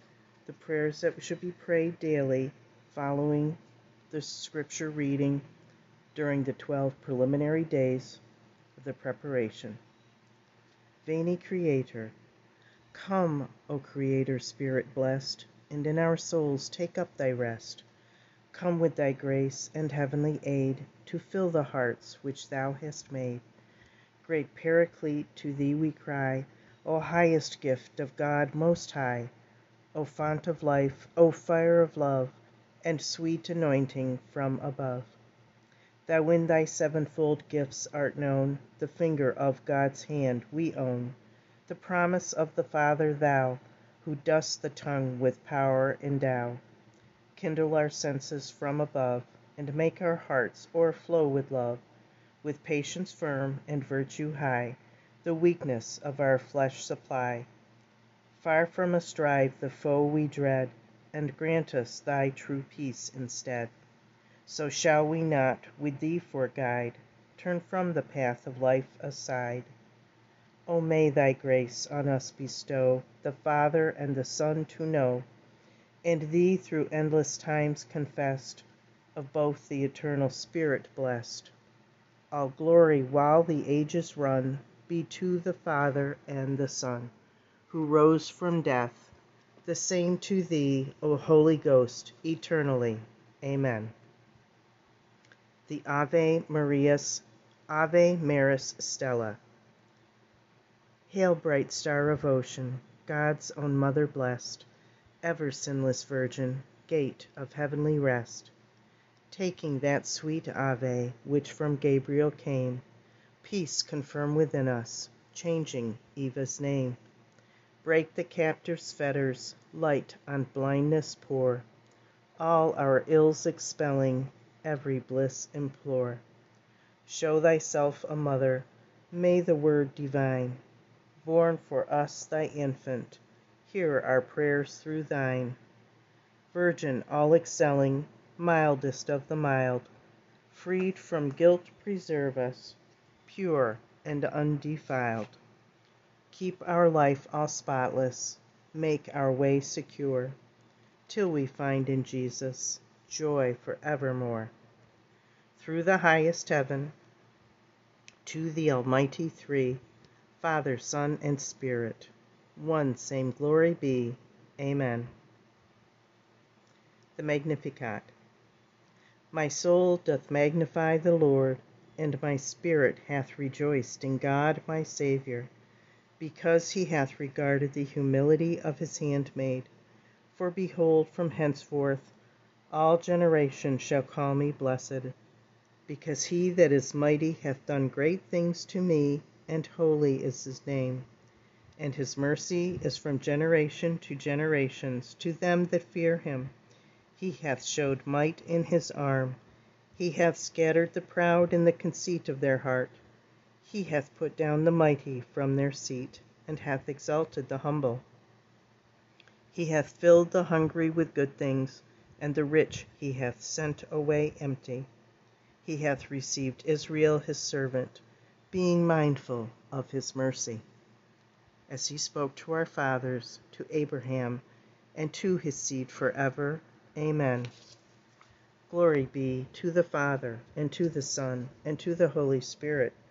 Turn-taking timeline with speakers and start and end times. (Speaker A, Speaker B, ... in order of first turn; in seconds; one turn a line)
Speaker A: 0.5-3.6
Speaker A: 4.1-5.4
Speaker A: 6.1-8.2
Speaker A: 8.8-9.8
Speaker A: 11.0-12.1
Speaker A: 12.9-17.9
Speaker A: 18.5-23.4
Speaker A: 24.2-29.3
Speaker A: 29.9-35.1
Speaker A: 36.1-41.1
Speaker A: 41.7-46.6
Speaker A: 47.4-51.8
Speaker A: 52.4-57.5
Speaker A: 58.4-63.7
Speaker A: 64.5-69.7
Speaker A: 70.7-75.2
Speaker A: 76.0-81.5
Speaker A: 82.3-87.1
Speaker A: 87.7-89.1
Speaker A: 89.6-93.9
Speaker A: 95.7-99.4
Speaker A: 101.1-104.7
Speaker A: 105.2-108.5
Speaker A: 109.3-112.8
Speaker A: 113.4-117.0
Speaker A: 117.8-121.7
Speaker A: 122.4-126.2
Speaker A: 127.0-130.6
Speaker A: 131.2-135.6
Speaker A: 136.5-139.9
Speaker A: 140.5-145.4
Speaker A: 146.3-150.3
Speaker A: 151.1-154.5
Speaker A: 155.5-156.9
Speaker A: 158.2-159.8
Speaker A: 160.4-165.1
Speaker A: 167.2-168.1
Speaker A: 169.3-175.5
Speaker A: 176.2-179.7
Speaker A: 180.3-182.1
Speaker A: 182.7-185.2
Speaker A: 185.9-191.1
Speaker A: 191.8-196.5
Speaker A: 197.2-199.4
Speaker A: 199.9-203.0
Speaker A: 203.6-208.0
Speaker A: 209.5-214.9
Speaker A: 215.6-220.6
Speaker A: 221.7-224.4
Speaker A: 224.9-227.5
Speaker A: 228.7-232.9